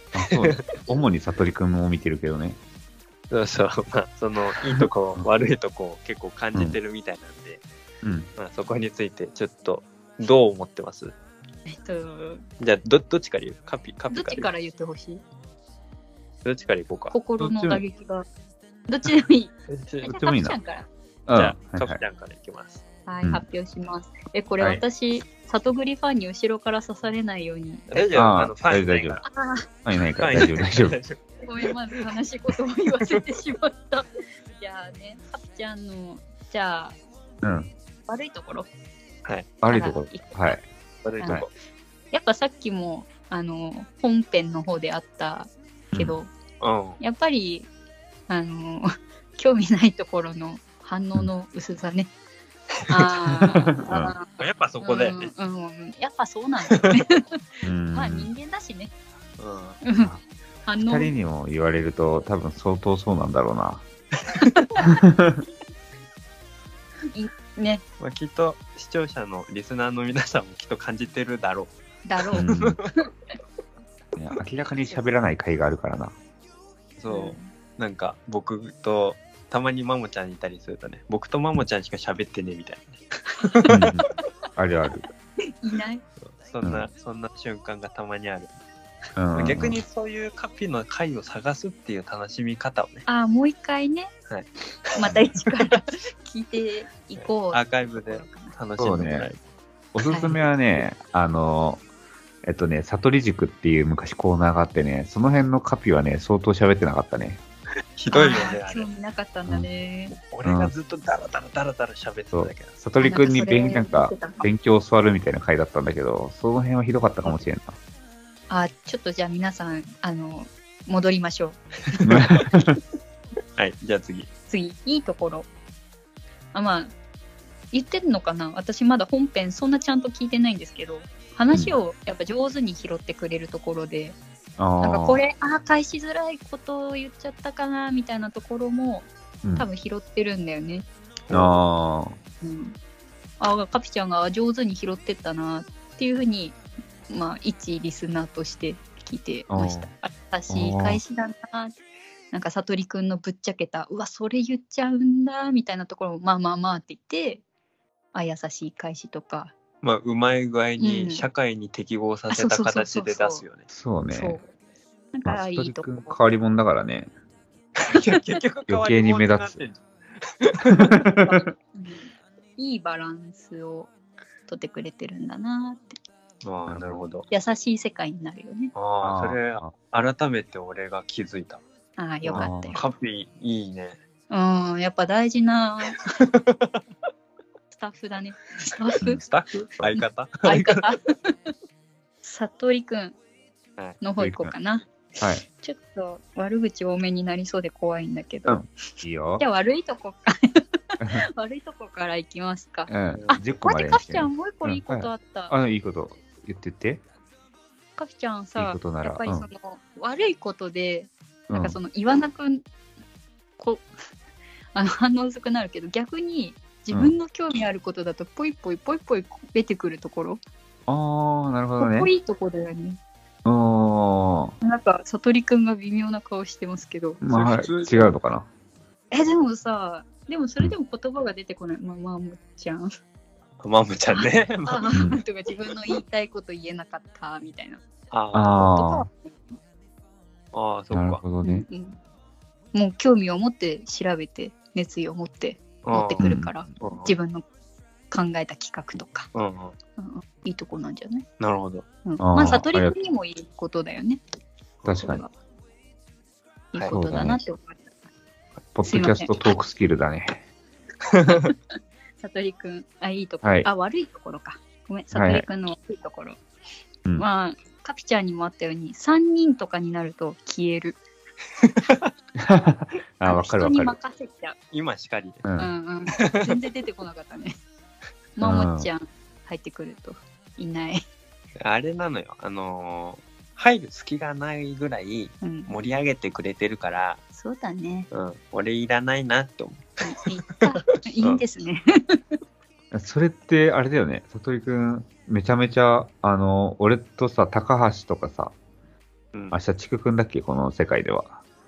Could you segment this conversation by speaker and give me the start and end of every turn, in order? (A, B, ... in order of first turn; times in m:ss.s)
0:00.2-0:02.6 A
0:00.2-0:00.7 B
0:03.3-0:07.6 B
0:04.6-0:05.3 A
0:08.0-0:08.3 A
0:08.4-0:11.2 B
0:11.7-0:12.4 C
0:12.6-0:14.5 B
0:14.1-0:15.2 C
0:16.4-0:17.2 B
0:17.1-0:18.2 C
0:17.4-0:17.8 A
0:18.9-0:20.9 C
0:19.7-0:20.1 B
0:20.1-0:20.6 A
0:21.3-0:22.0 A
0:21.3-0:22.8 B
0:23.1-0:28.1 C
0:27.9-0:29.2 B
0:28.2-0:29.2 A
0:29.2-0:29.7 C
0:29.8-0:31.0 A
0:30.2-0:32.0 B
0:31.4-0:37.0 C
0:37.4-0:37.7 A
0:38.1-0:38.7 C
0:39.2-0:39.5 B
0:39.6-0:40.6 A
0:39.7-0:40.6 C
0:41.0-0:41.5 B
0:41.2-0:41.5 C
0:42.1-0:46.3 C
0:45.9-0:46.2 A
0:46.6-0:47.0 B
0:47.0-0:47.7 C
0:48.3-0:52.1 C
0:52.9-0:54.3 C
0:53.7-0:54.1 A
0:54.4-0:55.3 B
0:54.8-0:57.4 C
0:57.6-0:58.3 A
0:57.9-0:58.9 C
0:59.4-0:59.8 B
0:59.8-1:00.1 C
1:00.7-1:01.1 C
1:00.9-1:03.8 A
1:04.4-1:04.9 C
1:04.9-1:05.4 A
1:07.1-1:07.8 C
1:08.0-1:11.7 B
1:12.1-1:12.5 C
1:12.2-1:12.9 B
1:12.4-1:12.8 A
1:14.2-1:16.1 A
1:17.0-1:23.8 B
1:17.1-1:17.5 C
1:23.7-1:24.0 A
1:24.6-1:25.0 A
1:25.5-1:26.0 C
1:26.2-1:28.5 B
1:26.6-1:26.9 A
1:29.2-1:29.8 A
1:29.3-1:33.1 B
1:33.1-1:34.1 C
1:34.3-1:35.1 B
1:35.0-1:38.6 C
1:37.2-1:39.4 B
1:38.8-1:39.3 A
1:39.9-1:41.8 A
1:40.0-1:40.4 C
1:42.4-1:47.4 A
1:48.0-1:48.9 B
1:48.1-1:50.2 C
1:50.1-1:52.8 B
1:50.4-1:50.7 A
1:52.3-1:57.8 A
1:53.0-1:54.5 C
1:58.5-2:01.6 C
2:02.0-2:02.4 B
2:02.0-2:02.8 A
2:03.6-2:04.3 B
2:04.5-2:05.5 C
2:06.5-2:07.0 C
2:07.7-2:14.2 C
2:14.6-2:15.2 A
2:14.8-2:20.9 C
2:21.3-2:21.6 B
2:21.3-2:22.2 A
2:22.4-2:22.8 C
2:23.4-2:26.6 C
2:27.1-2:31.8 C
2:29.5-2:29.9 A
2:30.5-2:31.0 A
2:32.3-2:37.4 C
2:38.1-2:39.5 C
2:39.8-2:43.6 B
2:40.8-2:41.3 C
2:42.3-2:43.4 C
2:43.7-2:44.4 A
2:44.1-2:44.5 C
2:45.1-2:46.2 C
2:45.2-2:47.1 A
2:47.8-2:51.0 B
2:48.7-2:49.6 A
2:50.8-2:51.4 A
2:51.3-2:53.9 C
2:54.5-2:56.0 C
2:56.4-2:57.3 B
2:56.7-2:57.0 A
2:57.3-2:58.7 C
2:58.8-3:01.6 B
2:59.0-2:59.7 A
3:02.0-3:02.8 C
3:02.2-3:04.0 B
3:02.3-3:02.8 A
3:04.3-3:06.0 C
3:06.2-3:06.8 B
3:07.7-3:09.2 C
3:09.0-3:10.9 B
3:09.9-3:11.4 C
3:12.2-3:13.2 C
3:14.0-3:25.5 C
3:14.2-3:14.5 A
3:18.5-3:19.4 A
3:22.9-3:27.0 A
3:23.1-3:23.4 B
3:28.0-3:32.7 C
3:28.6-3:29.5 A
3:31.5-3:31.8 A
3:33.6-3:33.9 C
3:34.7-3:40.4 C
3:40.9-3:42.1 A
3:41.8-3:43.0 C
3:43.4-3:44.6 A
3:44.6-3:47.2 C
3:47.2-3:48.5 A
3:47.3-3:48.1 B
3:49.1-3:53.0 C
3:53.6-3:55.0 B
3:54.1-3:57.8 C
3:55.0-3:55.2 A
3:58.1-3:58.8 B
3:58.3-3:59.1 A
3:58.6-3:59.6 C
4:00.5-4:01.2 B
4:00.9-4:01.7 A
4:01.4-4:02.0 C
4:02.7-4:07.4 C
4:05.8-4:07.1 B
4:06.2-4:06.6 A
4:08.1-4:09.3 C
4:09.3-4:09.8 B
4:10.0-4:11.3 C
4:11.4-4:11.8 B
4:12.0-4:14.2 C
4:12.2-4:12.9 A
4:14.8-4:15.2 A
4:14.9-4:15.3 C
4:16.7-4:17.9 C
4:16.9-4:17.4 A
4:18.7-4:20.4 A
4:18.8-4:19.4 C
4:21.1-4:21.5 B
4:22.2-4:26.4 C
4:23.4-4:23.7 A
4:25.1-4:25.4 A
4:27.2-4:31.0 C
4:31.6-4:32.1 B
4:32.4-4:34.0 A
4:33.2-4:34.6 C
4:34.7-4:35.4 B
4:35.4-4:35.7 A
4:35.6-4:37.6 C
4:36.1-4:36.6 B
4:38.4-4:41.0 C
4:38.4-4:38.9 A
4:41.6-4:47.2 B
4:45.4-4:45.7 C
4:47.3-4:48.1 C
4:48.1-4:51.4 B
4:50.0-4:52.2 C
4:52.9-4:58.5 A
4:59.5-5:01.4 A